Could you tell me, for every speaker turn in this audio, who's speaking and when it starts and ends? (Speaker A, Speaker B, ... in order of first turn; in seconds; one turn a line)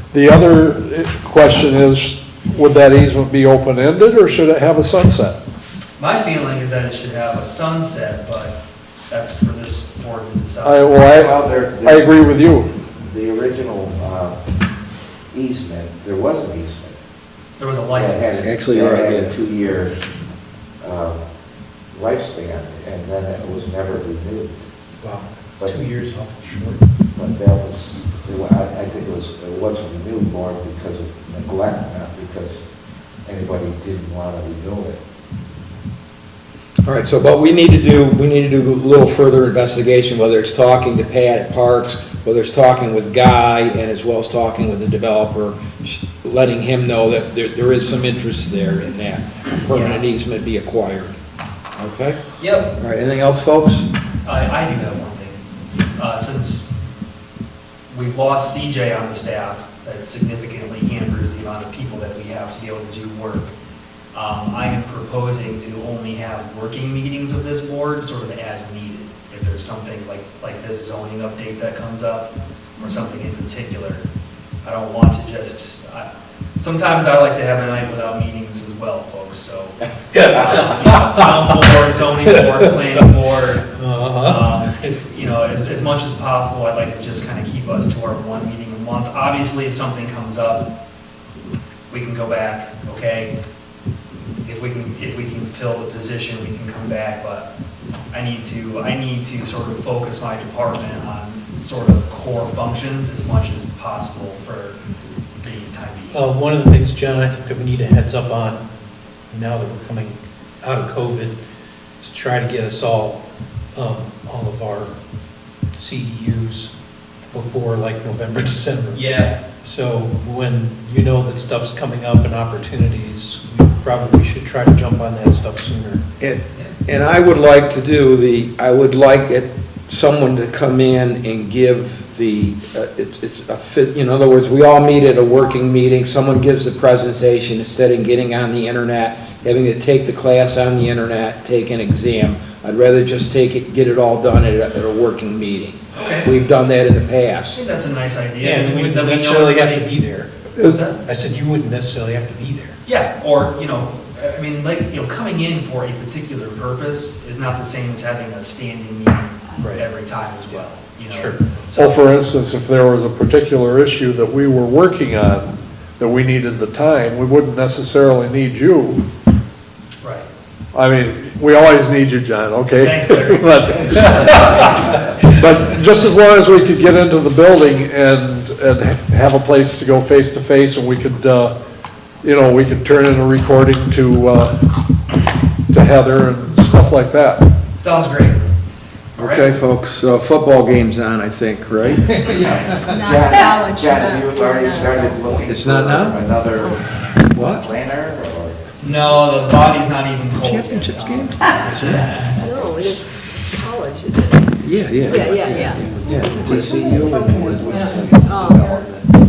Speaker A: 0.1-5.4
Speaker B: 6.0-8.6
Speaker B: 9.1-10.8
Speaker A: 10.6-12.7
Speaker C: 11.1-12.1
Speaker C: 13.0-14.4
Speaker C: 15.3-17.0
Speaker B: 17.6-18.5
Speaker C: 17.9-19.9
Speaker D: 18.4-19.4
Speaker C: 20.8-21.2
Speaker C: 21.9-24.6
Speaker E: 25.0-26.8
Speaker C: 27.1-32.7
Speaker C: 33.2-35.0
Speaker D: 36.8-51.1
Speaker B: 49.7-50.0
Speaker D: 51.8-52.2
Speaker B: 52.4-52.7
Speaker D: 52.7-53.9
Speaker B: 54.2-55.4
Speaker B: 56.0-56.7
Speaker B: 57.9-63.5
Speaker B: 64.1-74.0
Speaker B: 74.6-76.1
Speaker B: 76.6-90.7
Speaker E: 80.1-82.7
Speaker E: 83.7-85.0
Speaker B: 91.9-93.3
Speaker B: 94.4-97.5
Speaker B: 98.1-104.8
Speaker B: 105.4-106.2
Speaker E: 106.1-108.6
Speaker E: 109.3-111.4
Speaker E: 112.0-113.2
Speaker E: 113.7-114.9
Speaker E: 115.7-116.7
Speaker E: 117.3-126.0
Speaker B: 118.9-119.4
Speaker D: 126.2-147.6
Speaker B: 145.9-146.3
Speaker B: 147.5-149.9
Speaker E: 148.4-152.8
Speaker B: 150.6-151.0
Speaker B: 152.8-162.1
Speaker E: 159.6-159.8
Speaker E: 160.5-161.5
Speaker A: 161.8-169.0
Speaker B: 170.0-170.3
Speaker A: 170.7-181.5
Speaker B: 172.8-175.1
Speaker A: 182.2-184.6
Speaker A: 185.7-187.4
Speaker B: 187.8-188.5
Speaker B: 189.2-189.5
Speaker D: 189.2-192.4
Speaker C: 192.3-198.6
Speaker F: 192.9-195.4
Speaker D: 195.4-196.2
Speaker F: 196.5-196.9
Speaker D: 197.3-197.7
Speaker B: 198.8-202.8
Speaker D: 200.4-202.2
Speaker F: 202.4-208.8
Speaker D: 204.6-208.8
Speaker E: 205.2-208.6
Speaker C: 207.1-207.3